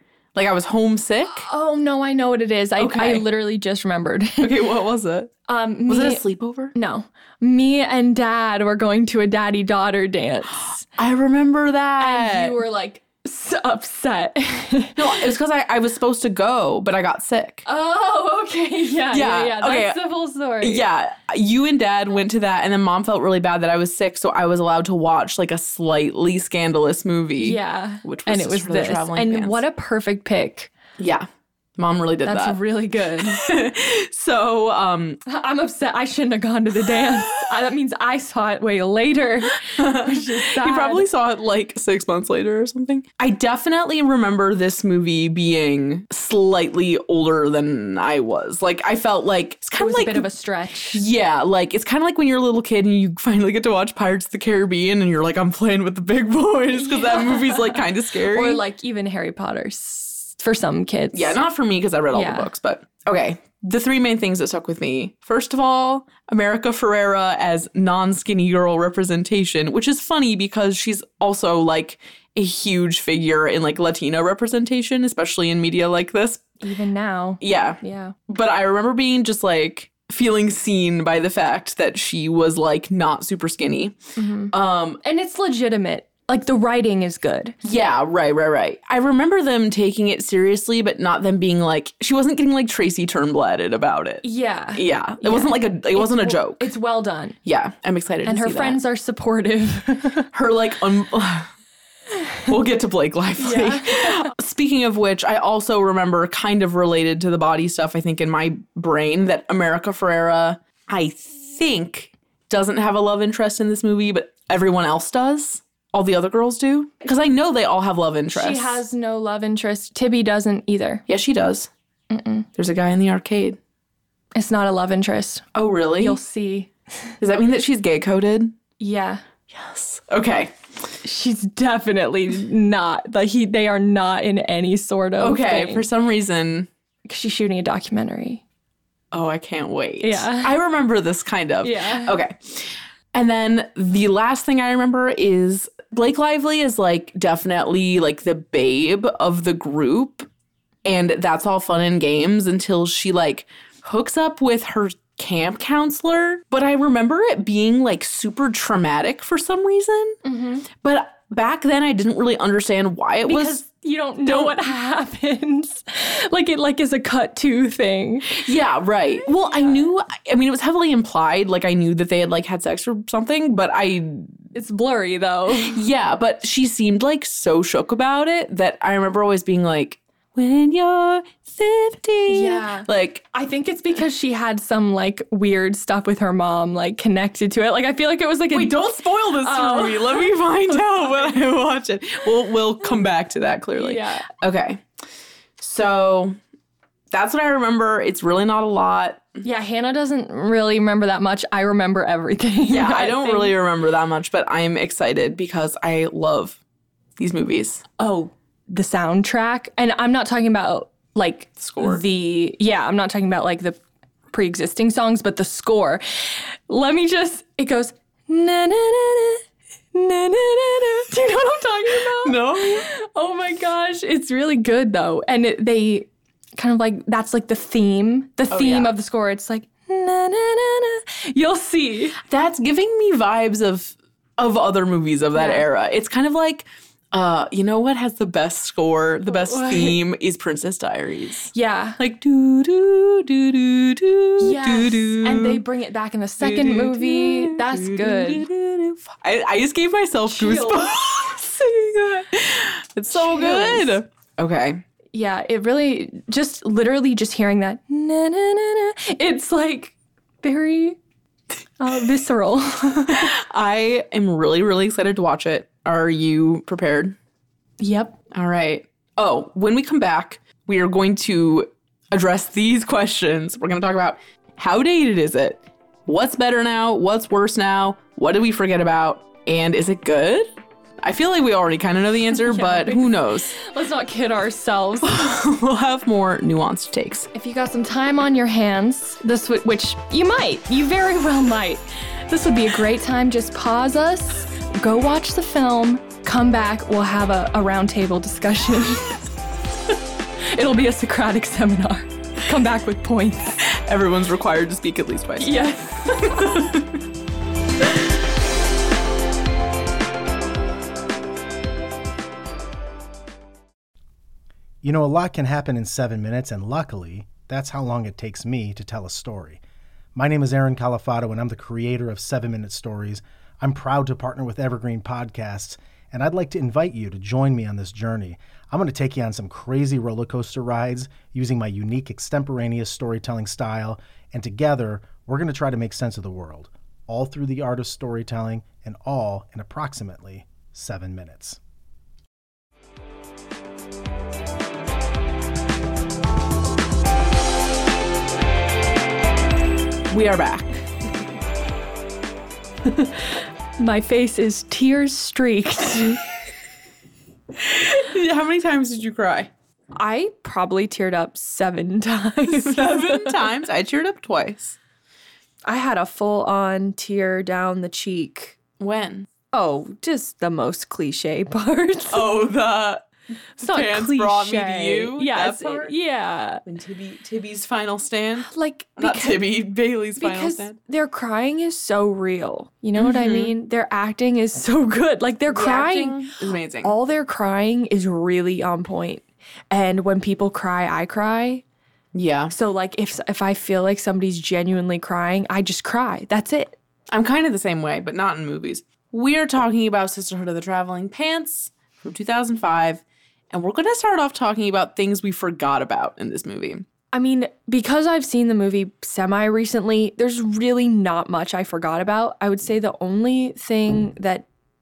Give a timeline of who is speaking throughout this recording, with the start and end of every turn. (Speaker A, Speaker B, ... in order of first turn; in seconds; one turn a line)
Speaker A: 0.3-1.5
Speaker B: 1.3-4.5
Speaker A: 2.8-3.2
Speaker A: 4.4-5.3
Speaker B: 5.5-6.2
Speaker A: 5.9-6.7
Speaker B: 6.7-10.8
Speaker A: 10.8-12.6
Speaker B: 12.0-15.0
Speaker A: 14.9-17.6
Speaker B: 17.6-20.8
Speaker A: 19.1-20.0
Speaker A: 20.6-29.6
Speaker B: 27.4-30.7
Speaker A: 31.0-32.6
Speaker B: 32.2-33.5
Speaker A: 33.2-35.2
Speaker B: 35.3-41.0
Speaker A: 39.8-50.3
Speaker B: 49.8-51.0
Speaker A: 50.9-58.6
Speaker B: 56.7-61.4
Speaker A: 61.1-76.5
Speaker B: 62.1-62.5
Speaker B: 76.6-78.1
Speaker A: 77.4-84.0
Speaker B: 84.2-87.5
Speaker A: 84.5-85.0
Speaker A: 87.6-96.7
Speaker B: 94.2-97.3
Speaker A: 97.4-98.8
Speaker B: 98.2-100.3
Speaker A: 100.3-101.5
Speaker A: 102.5-118.8
Speaker B: 103.4-104.3
Speaker B: 118.3-121.0
Speaker A: 121.1-121.7
Speaker B: 122.1-122.5
Speaker A: 122.6-123.6
Speaker B: 124.3-125.4
Speaker A: 125.5-126.2
Speaker B: 126.0-126.7
Speaker A: 127.2-128.5
Speaker B: 128.8-129.2
Speaker A: 129.5-130.5
Speaker B: 131.0-135.8
Speaker A: 135.2-136.7
Speaker B: 137.1-138.4
Speaker A: 139.1-150.3
Speaker B: 140.0-140.5
Speaker B: 141.6-142.2
Speaker A: 150.8-160.2
Speaker B: 160.2-160.6
Speaker A: 160.8-163.6
Speaker B: 163.2-168.4
Speaker A: 164.2-164.7
Speaker A: 168.3-174.4
Speaker B: 169.4-169.9
Speaker B: 174.5-175.8
Speaker A: 175.6-183.2
Speaker B: 182.3-188.8
Speaker A: 188.5-194.8
Speaker B: 189.4-190.3
Speaker B: 193.8-194.3
Speaker A: 195.6-196.4
Speaker A: 197.1-199.4
Speaker B: 199.4-203.5
Speaker A: 202.7-206.6
Speaker A: 207.2-207.8
Speaker B: 208.0-213.8
Speaker A: 211.6-212.0
Speaker B: 214.3-232.2
Speaker A: 222.2-222.8
Speaker A: 228.5-228.9
Speaker A: 232.2-245.6
Speaker B: 235.3-235.7
Speaker B: 239.2-240.0
Speaker B: 241.5-242.0
Speaker B: 244.4-248.5
Speaker A: 246.4-254.8
Speaker B: 250.3-250.9
Speaker B: 253.1-254.0
Speaker B: 255.1-261.0
Speaker B: 261.8-263.3
Speaker A: 263.1-267.1
Speaker B: 267.8-268.2
Speaker A: 268.3-280.5
Speaker A: 281.0-283.6
Speaker B: 282.5-285.1
Speaker A: 285.0-287.3
Speaker B: 287.3-299.1
Speaker B: 300.5-303.6
Speaker A: 303.6-306.9
Speaker B: 305.4-306.7
Speaker C: 314.8-319.6
Speaker C: 320.1-341.6
Speaker A: 350.1-350.7
Speaker B: 353.8-356.2
Speaker A: 357.6-359.5
Speaker B: 359.9-363.4
Speaker A: 362.5-364.8
Speaker B: 365.6-368.6
Speaker A: 368.8-369.3
Speaker B: 369.5-372.3
Speaker A: 372.1-373.1
Speaker A: 373.6-375.9
Speaker B: 373.6-376.6
Speaker A: 376.6-380.8
Speaker B: 378.5-379.4
Speaker B: 380.2-386.2
Speaker A: 382.9-383.5
Speaker A: 385.5-386.9
Speaker B: 386.8-391.6
Speaker A: 392.1-392.5
Speaker B: 392.5-396.8
Speaker A: 397.1-406.8
Speaker B: 407.1-414.4